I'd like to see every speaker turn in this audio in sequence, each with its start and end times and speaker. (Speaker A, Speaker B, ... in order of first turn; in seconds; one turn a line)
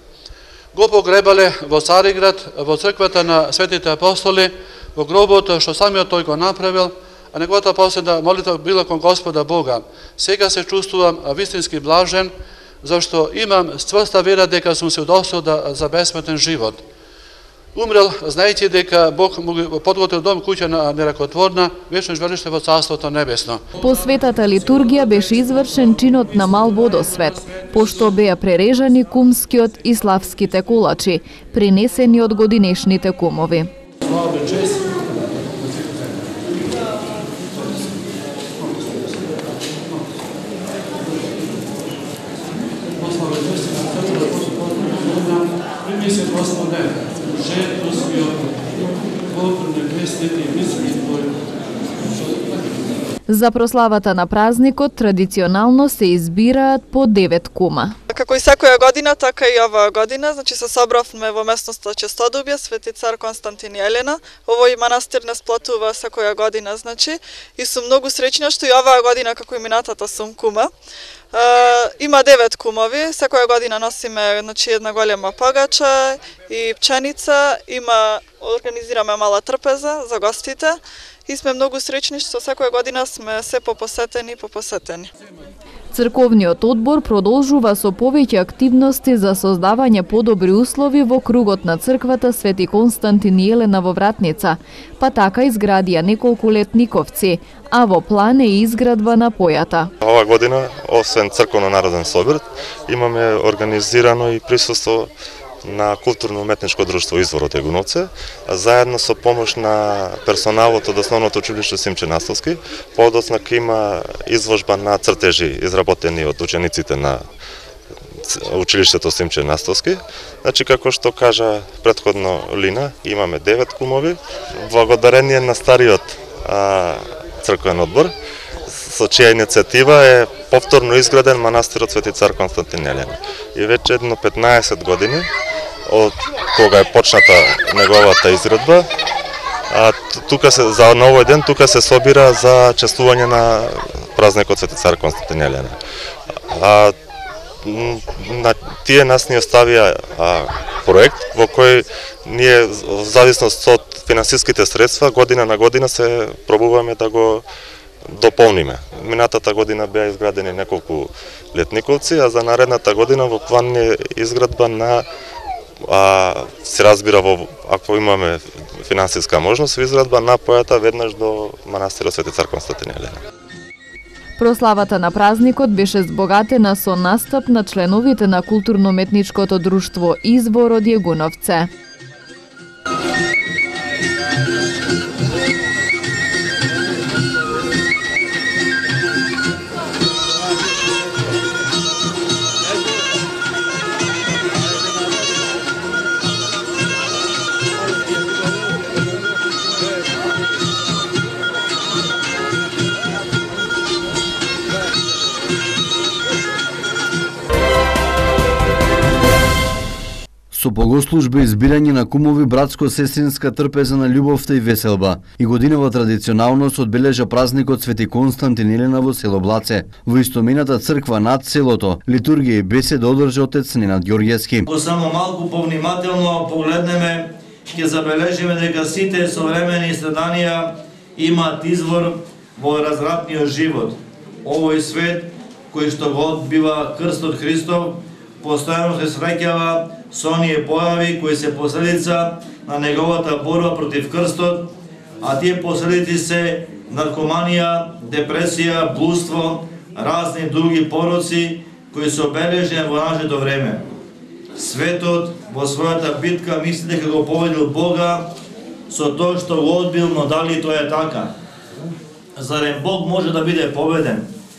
Speaker A: 0.8-12.3
Speaker A: 12.8-16.8
Speaker A: 17.8-23.6
Speaker B: 23.8-33.7
Speaker A: 34.1-34.9
Speaker A: 38.8-39.1
Speaker A: 43.0-48.8
Speaker A: 49.3-51.3
Speaker B: 53.3-58.0
Speaker C: 58.1-70.7
Speaker C: 71.3-85.1
Speaker B: 85.9-99.9
Speaker D: 100.0-105.1
Speaker D: 105.6-117.2
Speaker D: 118.3-128.1
Speaker D: 128.7-135.3
Speaker D: 135.9-138.8
Speaker D: 139.7-145.8
Speaker D: 146.5-146.9
Speaker D: 147.6-157.4
Speaker D: 158.1-165.1
Speaker D: 165.8-173.2
Speaker B: 174.4-181.7
Speaker E: 210.5-224.7
Speaker F: 224.7-244.7
Speaker F: 245.2-253.8
Speaker F: 254.6-258.3
Speaker F: 258.9-261.3
Speaker F: 262.4-264.3